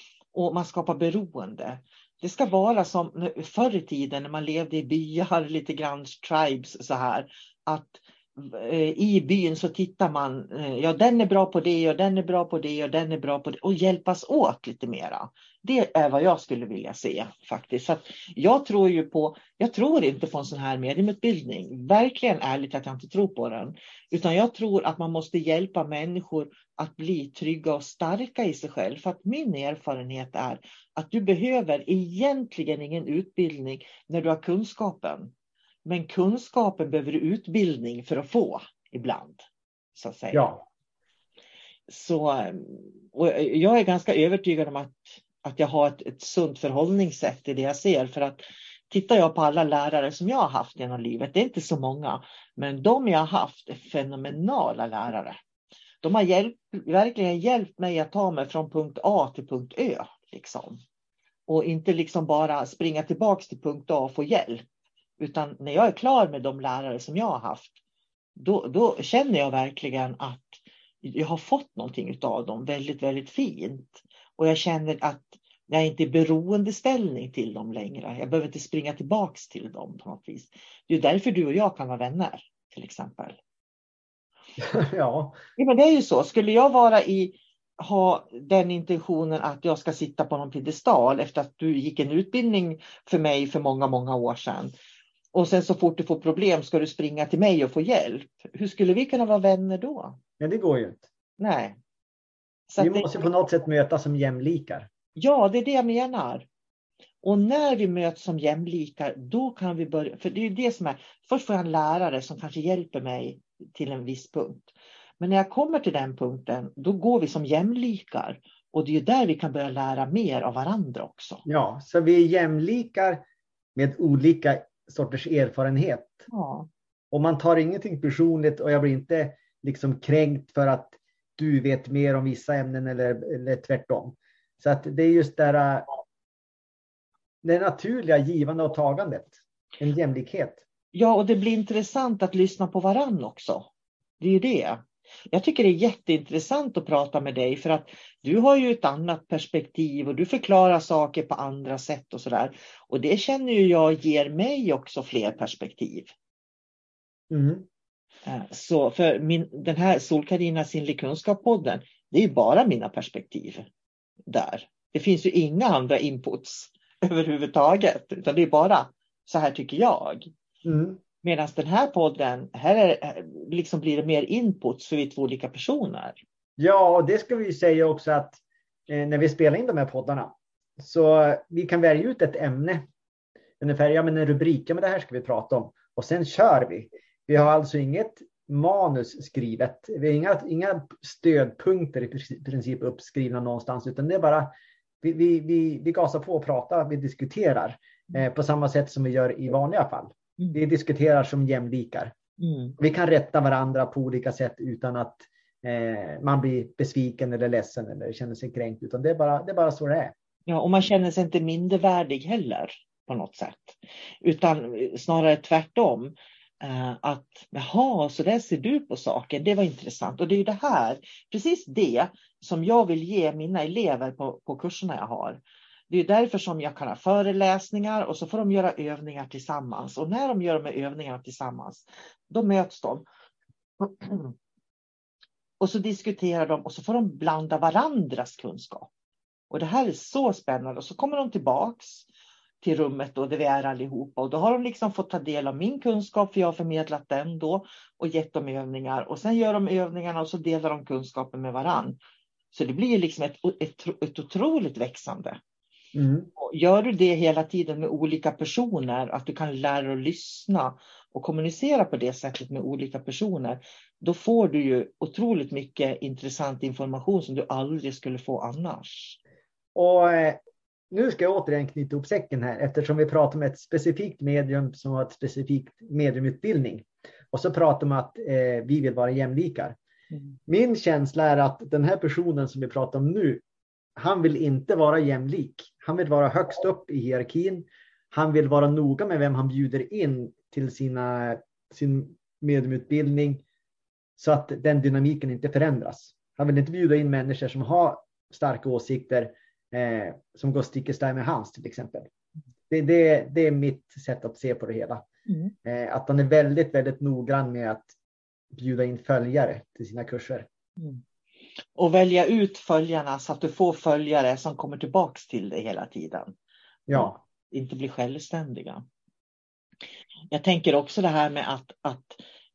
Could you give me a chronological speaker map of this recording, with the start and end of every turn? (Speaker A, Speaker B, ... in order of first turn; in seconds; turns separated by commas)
Speaker A: 0.3-35.3, Speaker A: 35.9-39.4, Speaker A: 40.0-40.5, Speaker B: 40.3-40.6, Speaker A: 41.9-55.4, Speaker A: 56.0-60.8, Speaker A: 61.5-64.6, Speaker A: 65.2-67.7, Speaker A: 68.3-83.4, Speaker B: 84.6-85.4, Speaker A: 85.6-94.7, Speaker A: 95.3-100.2, Speaker B: 100.4-101.1, Speaker A: 101.4-101.8, Speaker A: 102.7-103.1, Speaker B: 102.8-104.9, Speaker A: 105.2-106.5, Speaker A: 107.2-121.4, Speaker B: 121.4-126.3, Speaker A: 126.3-126.7, Speaker B: 127.1-135.9, Speaker B: 137.4-140.6, Speaker A: 140.9-143.7, Speaker A: 144.2-156.1, Speaker B: 157.3-157.7, Speaker A: 158.2-163.7, Speaker A: 164.3-170.3, Speaker B: 170.6-171.0, Speaker A: 171.2-176.2, Speaker B: 176.6-182.9, Speaker B: 183.6-202.1, Speaker A: 202.4-202.8, Speaker B: 202.8-210.1, Speaker A: 210.5-233.0, Speaker A: 233.8-234.3, Speaker A: 235.6-238.9, Speaker A: 239.5-242.1, Speaker A: 242.6-252.0, Speaker A: 252.5-255.4, Speaker B: 255.9-256.3, Speaker A: 256.4-269.2, Speaker B: 269.7-270.4, Speaker B: 270.9-279.8, Speaker B: 280.5-283.4, Speaker B: 284.0-293.4, Speaker B: 294.2-302.1, Speaker B: 302.7-305.0, Speaker A: 305.3-305.5, Speaker B: 305.6-307.9, Speaker B: 308.5-310.5, Speaker A: 311.8-316.3, Speaker B: 316.9-317.2, Speaker A: 316.9-318.8, Speaker A: 320.3-322.2